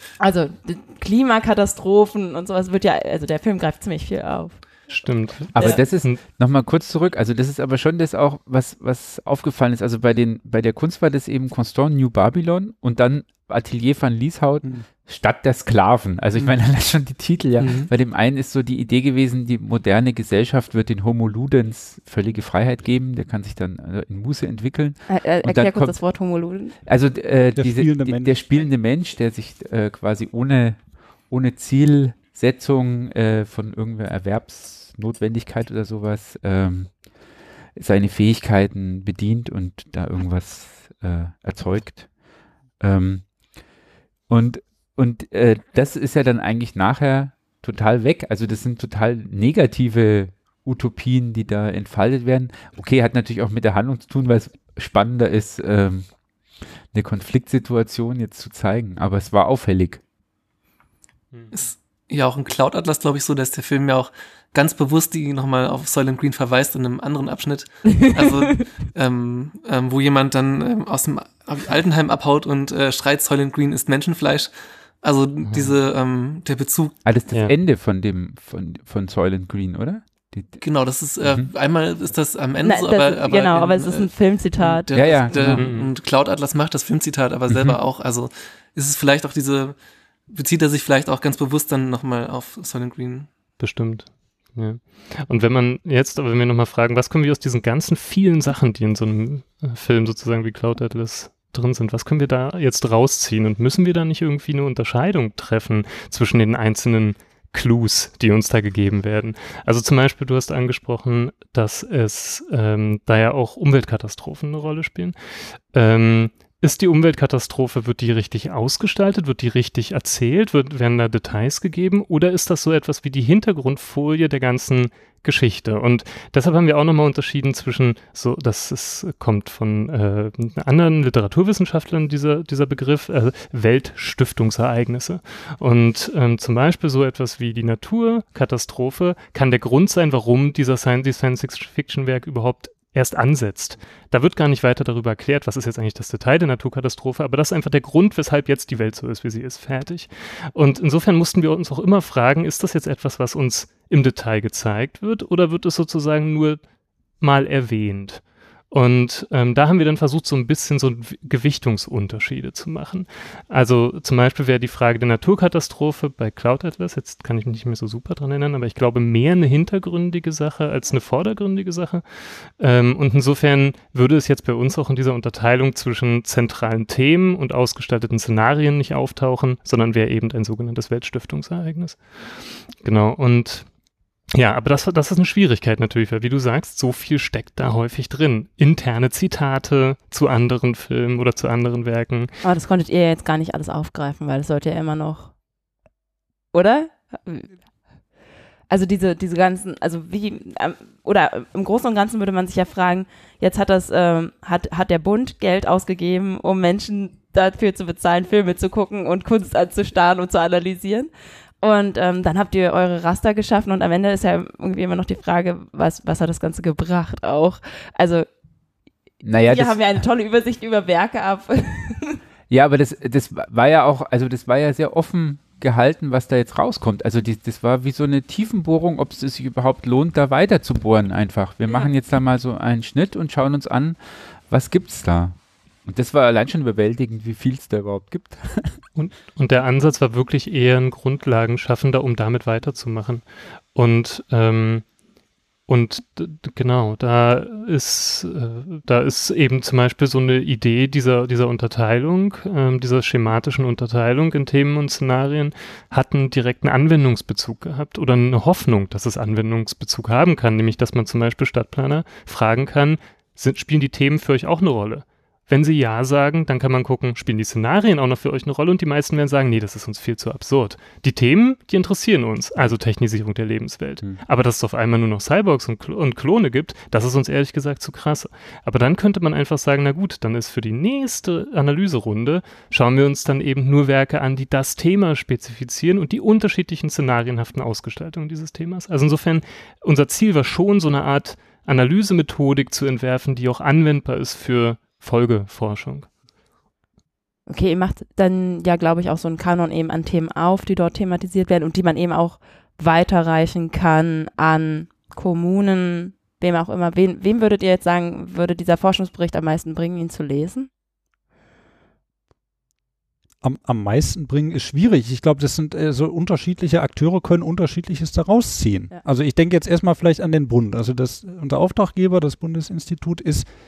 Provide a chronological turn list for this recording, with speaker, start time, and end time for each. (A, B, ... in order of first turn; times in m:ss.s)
0:00.2-0:04.9 A
0:04.9-0:06.2 B
0:05.5-0:26.0 C
0:17.6-0:17.9 D
0:25.1-0:26.8 A
0:26.8-0:37.0 C
0:27.6-0:28.3 E
0:37.8-0:42.1 C
0:42.8-0:43.3 C
0:44.3-0:56.1 C
0:56.9-1:00.0 C
1:01.5-1:17.0 D
1:15.5-1:15.7 B
1:17.0-1:20.6 C
1:20.6-1:33.3 D
1:21.2-1:21.5 C
1:22.6-1:25.2 A
1:24.9-1:25.7 C
1:25.5-1:25.9 B
1:27.5-1:27.8 C
1:33.6-1:55.1 B
1:55.7-2:36.6 B
2:37.2-3:03.7 B
3:04.3-3:12.3 B
3:12.4-3:15.3 A
3:16.5-3:17.5 A
3:18.7-3:31.1 A
3:31.6-3:38.3 A
3:39.2-3:39.8 C
3:39.5-3:42.2 A
3:42.5-3:58.8 C
3:59.0-4:04.8 B
4:05.7-4:56.1 B
4:57.5-5:10.7 A
5:13.4-5:23.5 E